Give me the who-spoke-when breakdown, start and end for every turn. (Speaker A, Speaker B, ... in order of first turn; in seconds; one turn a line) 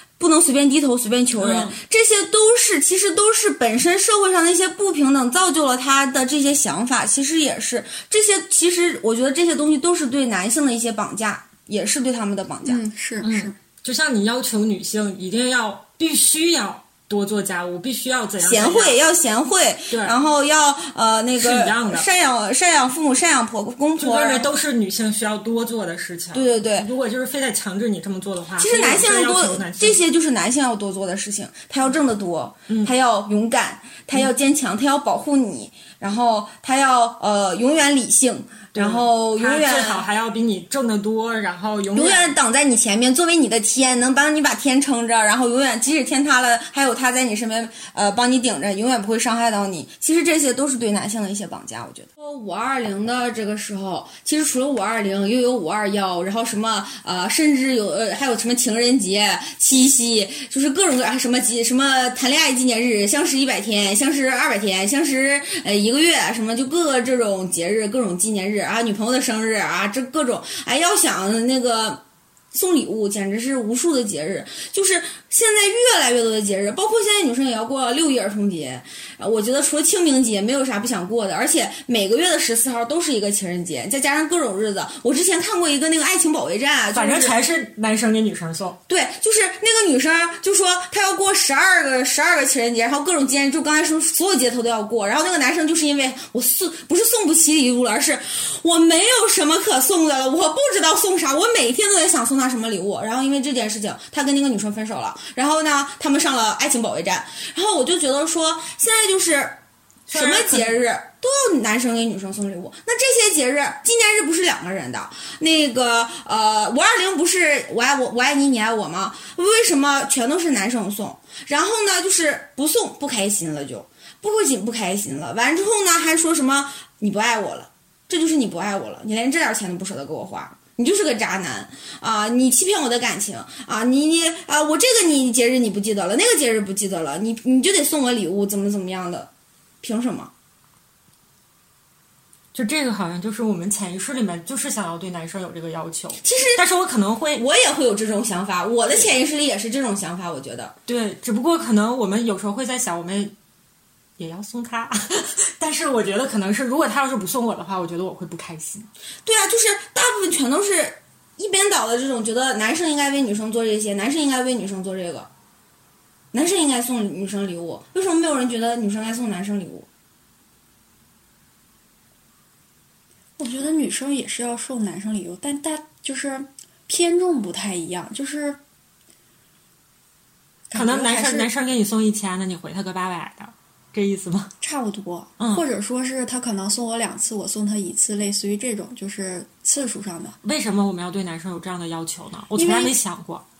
Speaker A: 0.2-12.8
Speaker B: 1.4-1.8
Speaker C: 12.6-13.5
Speaker B: 13.2-19.0
Speaker A: 18.4-24.5
Speaker B: 19.9-20.2
Speaker B: 21.4-22.1
Speaker B: 24.0-30.0
Speaker A: 26.3-26.9
Speaker A: 28.6-40.1
Speaker B: 38.7-42.4
Speaker A: 41.9-87.3
Speaker B: 86.9-88.8
Speaker A: 88.9-109.6
Speaker B: 110.1-110.8
Speaker A: 110.1-139.3
Speaker A: 139.8-140.3
Speaker B: 142.5-147.4
Speaker A: 146.2-146.6
Speaker A: 147.3-150.7
Speaker B: 150.9-153.3
Speaker B: 154.2-158.9
Speaker A: 159.2-165.3
Speaker A: 166.3-169.9
Speaker C: 173.4-178.6
Speaker C: 180.7-181.5
Speaker B: 180.7-184.5
Speaker C: 184.6-190.4
Speaker B: 185.4-185.6
Speaker B: 190.4-193.4
Speaker C: 192.6-192.9